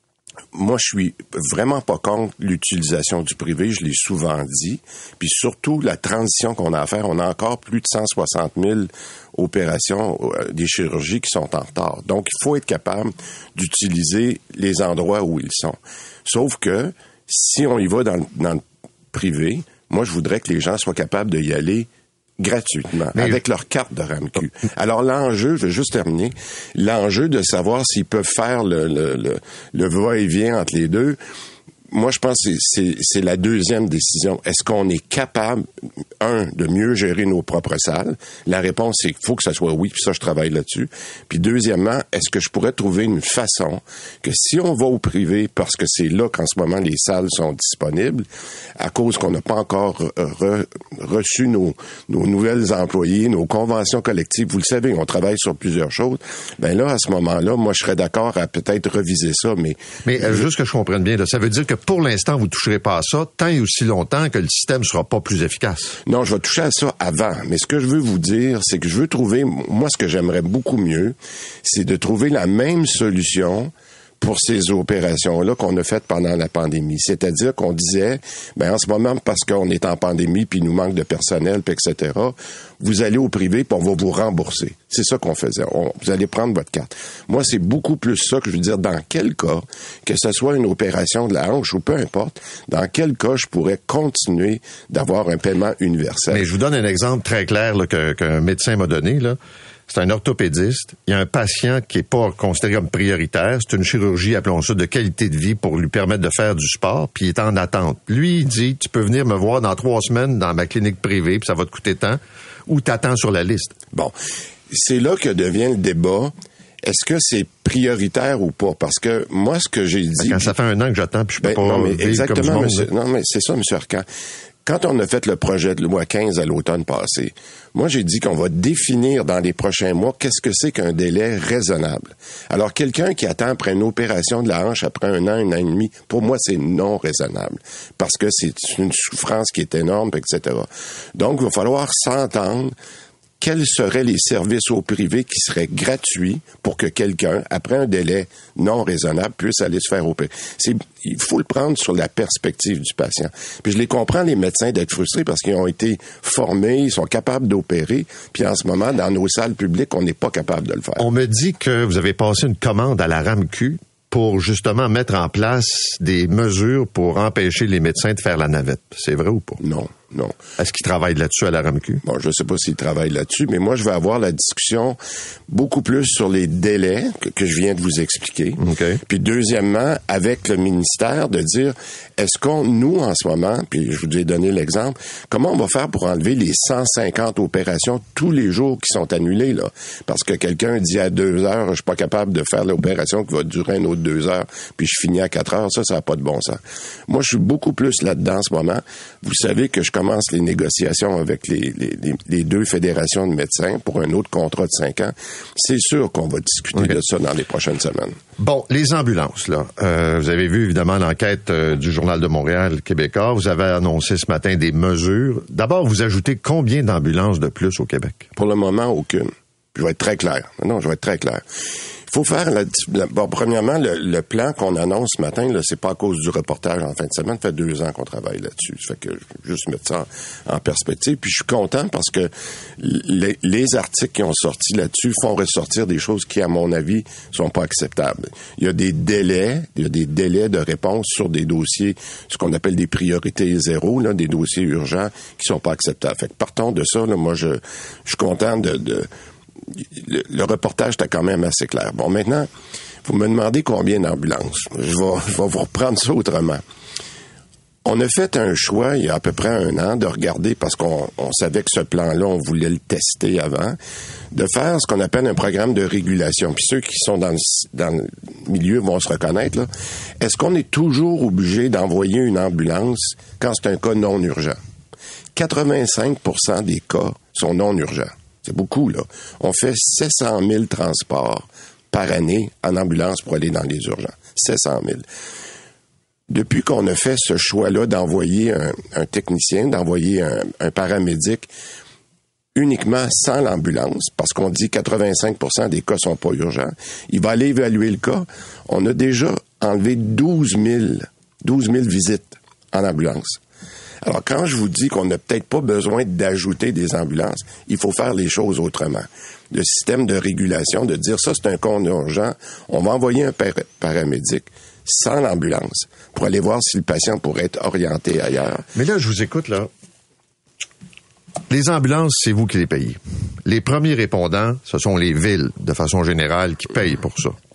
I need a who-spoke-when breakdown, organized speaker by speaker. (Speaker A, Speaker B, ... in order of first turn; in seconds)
Speaker A: 0.5-31.2, 31.9-35.7, 36.2-48.2, 48.8-60.4, 66.0-96.5, 114.7-120.5, 121.4-124.1, 124.7-142.7, 143.4-161.1, 169.6-170.4, 172.0-175.0, 175.5-208.2, 218.3-221.4, 222.1-249.1, 249.7-252.5, 253.0-256.6, 257.8-263.8, 264.3-274.6, 275.3-285.1, 286.3-291.5, 292.5-303.4, 304.0-318.6
Speaker B: 60.0-66.0, 96.3-113.7, 120.2-122.9, 161.0-169.6, 170.6-172.0, 178.6-179.0, 208.4-218.3, 318.7-319.7, 321.5-327.4